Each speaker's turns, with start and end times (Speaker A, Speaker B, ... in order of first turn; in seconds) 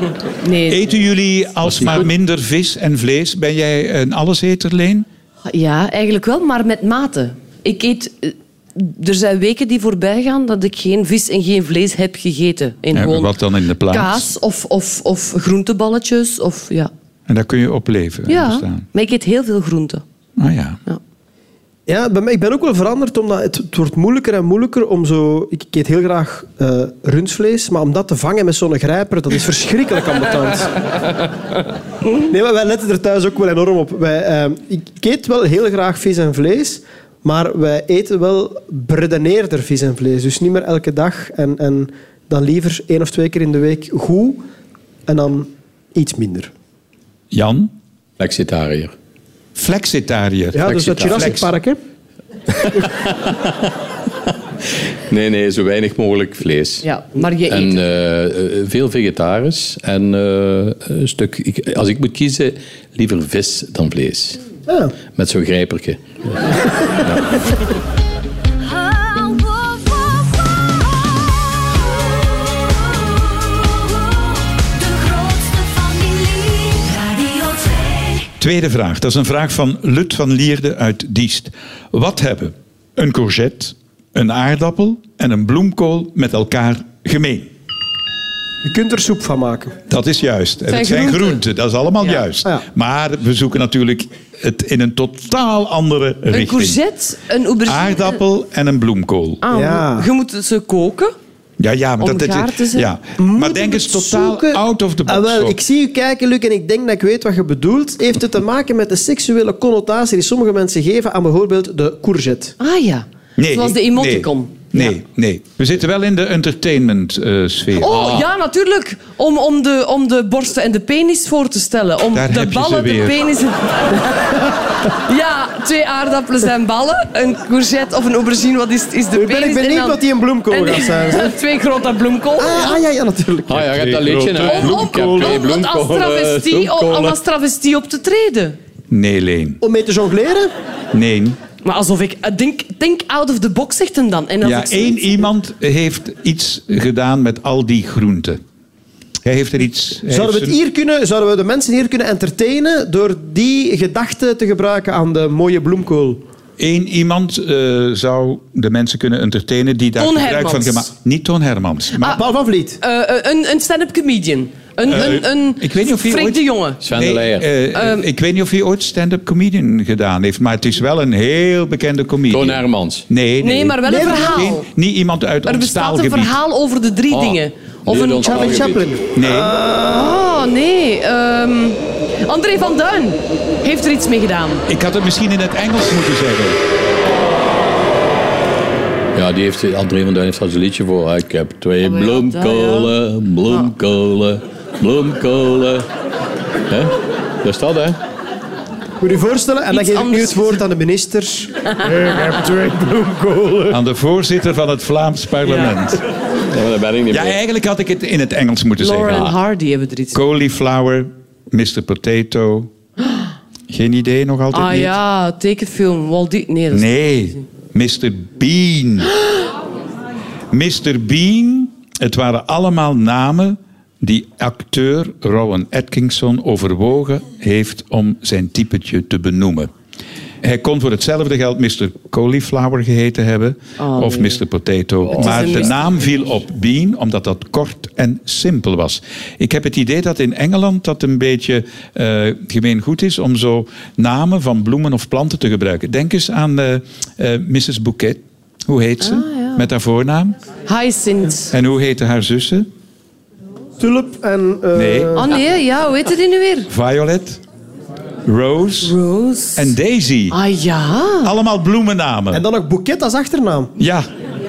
Speaker A: 0.4-0.8, 5.5-13.4, 13.9-16.9, 18.3-20.0, 56.8-57.8, 90.7-91.4, 96.3-98.2, 99.4-101.1, 102.0-102.9, 112.6-114.9, 117.8-130.0, 130.5-132.8, 134.4-138.6, 141.6-145.3, 160.0-160.9, 162.8-166.8, 167.8-168.0, 173.4-174.7, 175.5-178.6, 179.9-184.7, 191.8-192.9, 199.7-200.6, 208.8-210.2, 214.5-217.4, 233.8-234.4, 235.1-235.7, 249.0-249.7, 250.7-251.5, 255.2-256.7, 258.8-259.7, 260.3-261.3
Speaker B: 0.7-5.1, 12.9-14.3, 17.3-18.9, 20.4-20.8, 47.3-47.7, 49.5-51.4, 78.4-87.5, 89.9-96.8, 97.7-99.4, 101.6-105.6, 113.4-118.1, 122.1-123.2, 133.5-135.4, 138.9-139.6, 140.9-141.4, 144.4-148.4, 149.2-150.6, 156.6-162.2, 164.9-176.4, 179.1-179.6, 184.7-186.6, 203.7-206.0, 207.1-209.3, 210.1-212.7, 213.7-215.0, 216.7-219.1, 220.5-229.7, 230.4-250.4, 251.5-252.7, 254.7-255.2, 256.7-257.4, 258.2-259.0, 259.6-260.4, 261.2-262.4, 263.8-264.1
Speaker C: 1.7-2.1, 48.2-48.9, 50.7-51.5, 52.6-53.5, 55.1-56.9, 57.5-64.4, 65.2-67.2, 117.8-118.3, 133.5-137.2, 166.8-167.5, 172.3-173.1, 177.1-178.9, 189.2-195.9, 196.7-198.0, 206.5-207.4, 209.1-209.3, 235.1-235.6
Speaker D: 21.9-30.9, 32.2-44.4, 45.1-46.5, 50.5-51.8, 64.7-64.9, 88.6-89.8, 99.5-100.1, 103.2-112.5, 129.1-131.3, 132.4-133.7, 139.6-140.5, 150.1-156.2, 162.1-162.8, 173.9-174.5, 178.2-180.2, 199.0-201.5, 253.8-255.4, 262.3-263.7
Speaker E: 74.8-78.2